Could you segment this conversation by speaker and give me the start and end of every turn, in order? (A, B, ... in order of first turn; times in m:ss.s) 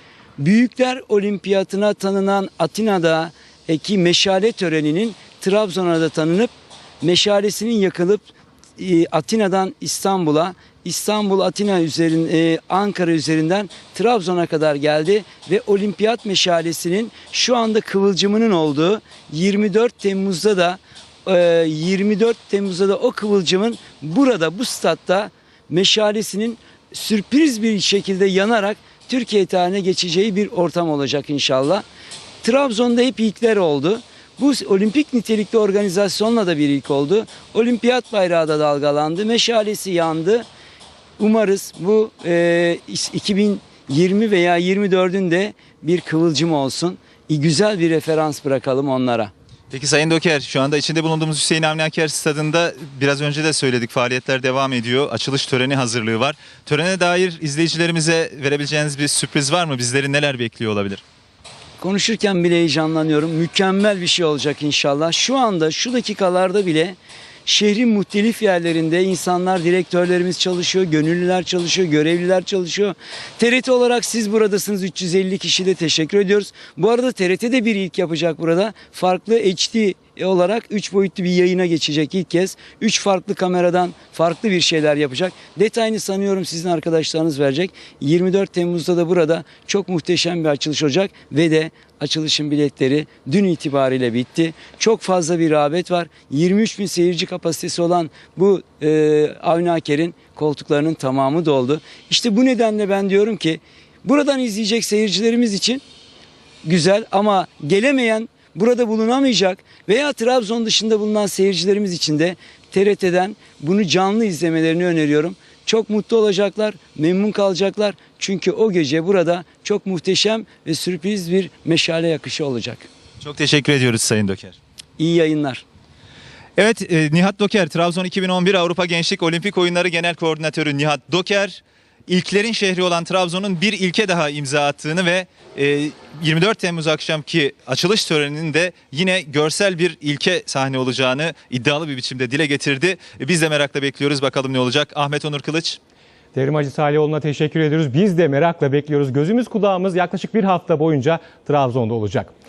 0:00.4-0:31.8 A
0:32.4-0:40.5 A
0:41.2-0:49.3 A
0:49.7-1:01.0 B
1:01.8-1:45.8 A
1:46.6-2:02.9 A
2:03.2-2:04.6 B
2:05.0-2:05.6 A
2:06.6-2:25.8 B
2:26.3-2:32.3 C